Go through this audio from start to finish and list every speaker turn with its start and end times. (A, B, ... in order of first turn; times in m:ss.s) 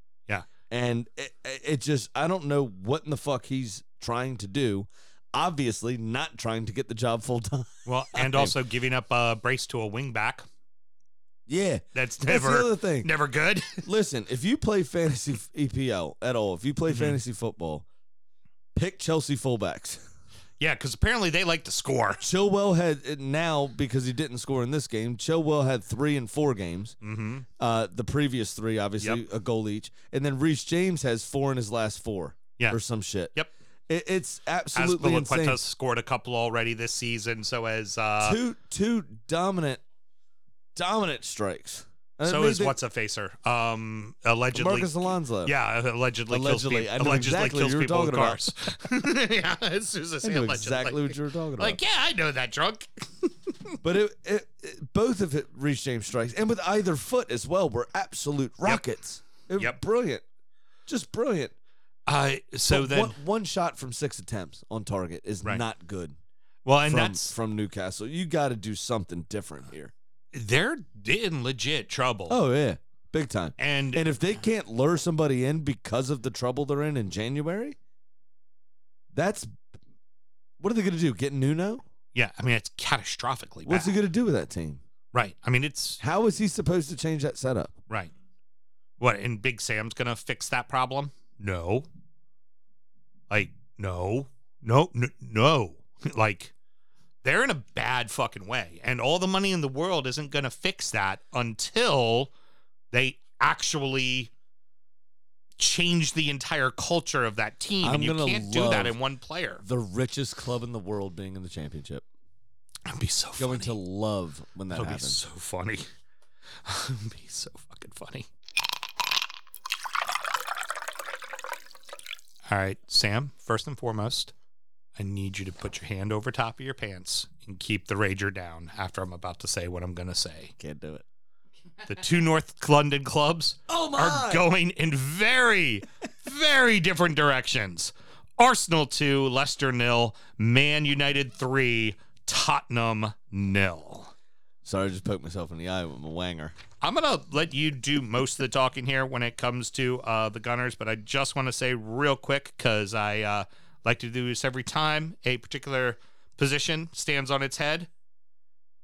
0:00.7-0:08.6 A
0:07.9-0:10.4 B
0:11.5-0:13.1 A
0:12.0-0:13.8 B
0:13.8-0:17.9 A
0:16.9-0:17.2 B
0:18.8-0:20.0 A
0:20.6-0:22.2 B
0:22.2-0:27.0 A
0:27.0-0:27.4 B
0:27.6-0:33.3 A
0:33.9-0:35.6 A
0:34.7-0:38.4 B
0:38.2-0:39.8 A
0:40.8-0:42.8 A
0:42.2-0:53.7 B
0:44.5-0:45.6 A
0:46.3-0:48.4 A
0:50.2-0:51.8 A
0:53.8-1:00.2 A
1:00.9-1:01.5 A
1:02.1-1:03.2 B
1:02.7-1:06.2 A
1:06.7-1:07.3 B
1:06.8-1:09.9 A
1:10.3-1:12.4 B
1:12.3-1:17.8 A
1:13.6-1:14.1 B
1:19.1-1:19.5 A
1:20.6-1:21.8 A
1:22.2-1:24.0 B
1:23.6-1:24.8 A
1:25.1-1:26.0 B
1:26.0-1:27.8 A
1:29.0-1:31.9 B
1:33.3-1:36.5 B
1:37.2-1:42.3 B
1:42.9-1:44.3 B
1:45.6-1:49.6 B
1:47.8-1:49.0 A
1:49.6-1:52.0 A
1:52.9-1:53.8 B
1:53.4-1:55.2 A
1:54.7-1:55.9 B
1:56.6-1:58.3 B
2:02.5-2:04.3 B
2:05.0-2:10.5 B
2:10.6-2:11.0 A
2:11.9-2:24.1 B
2:13.7-2:14.5 A
2:24.6-2:26.6 A
2:26.8-2:37.9 B